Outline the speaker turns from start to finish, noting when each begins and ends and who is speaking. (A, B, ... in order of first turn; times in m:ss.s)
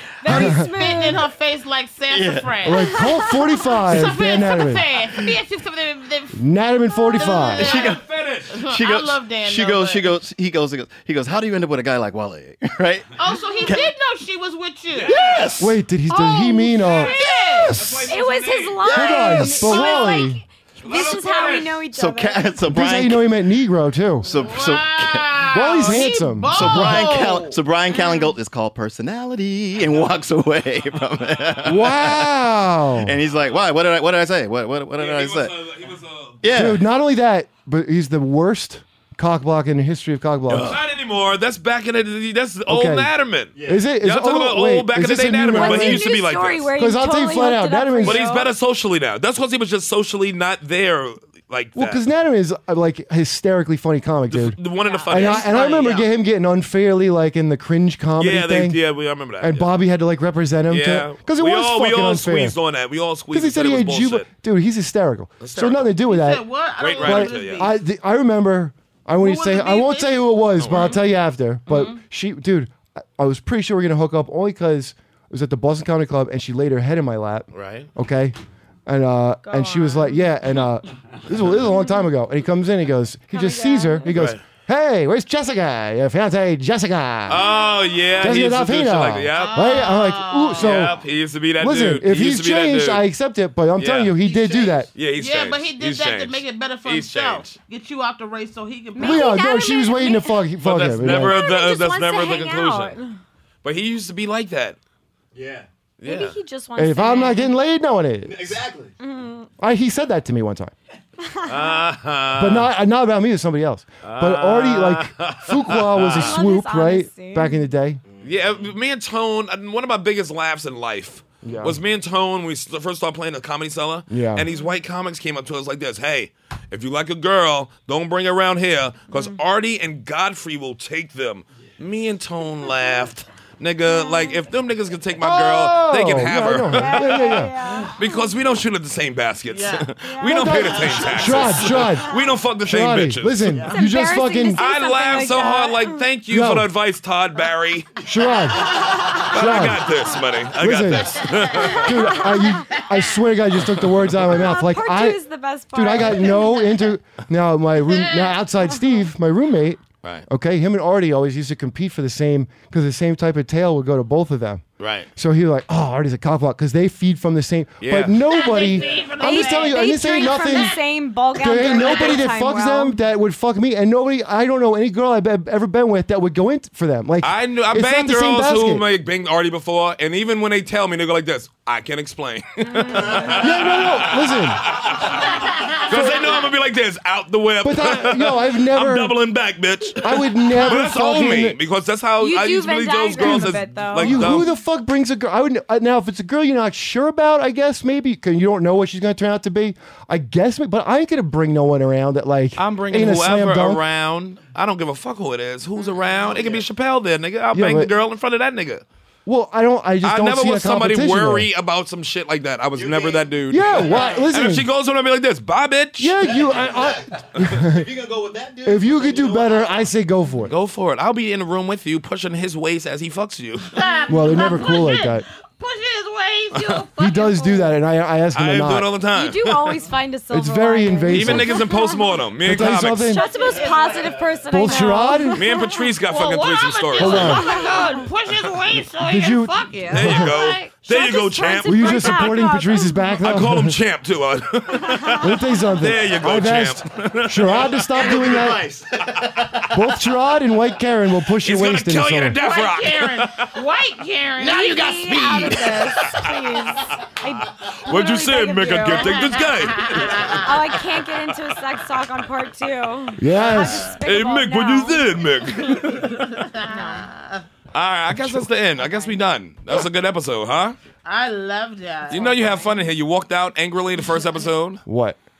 0:00.2-0:01.2 A
0:00.2-0:01.1 B
0:00.2-0:03.1 C
0:02.1-0:02.7 D
0:02.6-0:04.8 B
0:02.9-0:04.0 A
0:03.8-0:06.4 C
0:06.3-0:07.7 B
0:07.0-0:07.6 A
0:07.2-0:08.0 C
0:07.5-0:13.9 D
0:07.6-0:08.6 E
0:08.5-0:10.1 C
0:13.2-0:15.2 C
0:14.9-0:15.7 E
0:15.1-0:15.8 D
0:15.6-0:17.1 B
0:16.1-0:17.8 C
0:17.0-0:18.1 D
0:17.7-0:18.8 E
0:17.8-0:18.1 B
0:18.1-0:22.5 A
0:18.8-0:20.1 D
0:18.8-0:20.4 B
0:20.8-0:21.8 E
0:21.9-0:23.2 D
0:22.6-0:24.3 B
0:24.2-0:32.3 D
0:24.3-0:27.6 C
0:25.5-0:27.1 B
0:27.9-0:28.3 A
0:31.6-0:33.2 B
0:33.0-0:35.5 D
0:35.0-0:36.6 E
0:36.4-0:36.8 D
0:36.5-0:40.8 B
0:40.5-0:46.7 E
0:42.7-0:43.1 B
0:43.6-0:43.9 D
0:43.7-0:46.1 B
0:45.5-0:48.5 A
0:46.8-0:48.3 B
0:48.0-0:52.0 E
0:51.8-0:58.8 B
0:54.3-0:55.6 E
0:54.9-0:55.6 A
0:55.0-0:56.1 C
0:58.2-0:59.7 E
0:59.4-1:02.6 B
1:00.7-1:04.3 E
1:03.3-1:06.4 B
1:05.4-1:05.9 E
1:06.1-1:07.7 C
1:06.8-1:07.7 E
1:07.0-1:27.4 B
1:09.2-1:11.0 C
1:10.6-1:11.0 E
1:11.7-1:12.0 C
1:17.5-1:17.9 E
1:19.5-1:20.3 A
1:23.3-1:24.1 A
1:24.1-1:24.4 E
1:27.3-1:29.8 E
1:28.2-1:31.0 B
1:29.3-1:30.7 C
1:30.6-1:33.0 E
1:31.6-1:34.9 B
1:33.8-1:34.2 E
1:34.2-1:34.9 D
1:34.9-1:37.6 E
1:35.2-1:39.4 C
1:38.9-1:40.4 A
1:39.0-1:41.4 B
1:40.6-1:42.9 E
1:41.0-1:43.2 A
1:43.6-1:44.8 E
1:45.3-1:45.7 D
1:46.0-1:46.4 E
1:46.0-1:47.5 A
1:46.8-1:48.6 B
1:48.2-1:48.9 D
1:49.0-1:49.5 A
1:49.6-1:50.7 B
1:51.2-1:51.8 A
1:51.4-1:52.7 E
1:52.4-1:58.0 B
1:54.0-1:56.4 E
1:56.1-1:57.6 A
1:58.2-2:23.6 E
2:01.4-2:01.8 B
2:04.1-2:04.5 B
2:13.9-2:14.4 A
2:15.2-2:17.5 B
2:16.7-2:18.2 A
2:19.5-2:19.9 C
2:20.0-2:21.0 A
2:20.2-2:24.6 B
2:23.7-2:26.0 A
2:24.6-2:28.0 E
2:26.3-2:26.7 B
2:28.0-2:29.9 B
2:29.1-2:32.2 E
2:30.6-2:35.2 B
2:31.5-2:31.9 C
2:31.9-2:32.6 A
2:34.3-2:36.8 A
2:35.7-2:44.6 B
2:44.8-2:45.1 E
2:45.2-2:58.8 B
2:47.8-2:48.2 E
2:48.3-2:49.8 C
2:49.2-2:53.0 A
2:51.8-2:52.1 C
2:57.2-3:14.5 E
3:02.7-3:03.3 A
3:03.2-3:04.8 B
3:05.9-3:06.5 B
3:07.6-3:09.2 B
3:10.0-3:11.6 B
3:12.2-3:14.4 A
3:13.2-3:23.8 B
3:22.6-3:28.8 E
3:26.1-3:26.6 D
3:27.5-3:27.9 B
3:29.2-3:31.5 B
3:30.0-3:36.2 E
3:32.7-3:34.2 D
3:33.5-3:34.7 B
3:36.0-3:37.9 B
3:36.3-3:39.9 D
3:38.6-3:40.5 B
3:40.5-3:43.7 E
3:43.7-3:47.8 C
3:44.1-3:45.2 B
3:46.5-3:46.8 E
3:47.0-3:48.9 B
3:48.3-3:49.9 E
3:49.1-3:55.9 A
3:50.3-3:51.7 B
3:51.1-3:53.2 E
3:52.4-3:53.2 B
3:53.0-3:54.1 C
3:53.5-3:54.4 D
3:54.5-3:55.5 B
3:55.3-3:57.6 E
3:56.1-4:00.6 C
3:57.0-3:57.5 B
3:57.0-3:58.1 A
3:59.0-4:00.3 B
3:59.9-4:03.2 A
3:59.9-4:02.4 E
4:01.6-4:03.8 B
4:03.2-4:08.3 E
4:04.9-4:05.2 A
4:05.2-4:08.7 B
4:07.9-4:09.8 D
4:09.6-4:12.4 B
4:11.4-4:13.5 E
4:12.4-4:16.2 C
4:14.4-4:15.6 D
4:14.4-4:19.5 A
4:15.2-4:16.8 E
4:17.6-4:21.6 E
4:19.6-4:20.5 C
4:20.3-4:25.0 A
4:23.2-4:23.9 B
4:23.8-4:26.4 E
4:25.6-4:25.9 A
4:26.0-4:27.4 C
4:26.7-4:27.0 A
4:27.7-4:30.8 E
4:28.1-4:28.5 B
4:28.8-4:29.1 A
4:31.0-4:32.6 C
4:32.1-4:34.8 E
4:34.8-4:35.2 B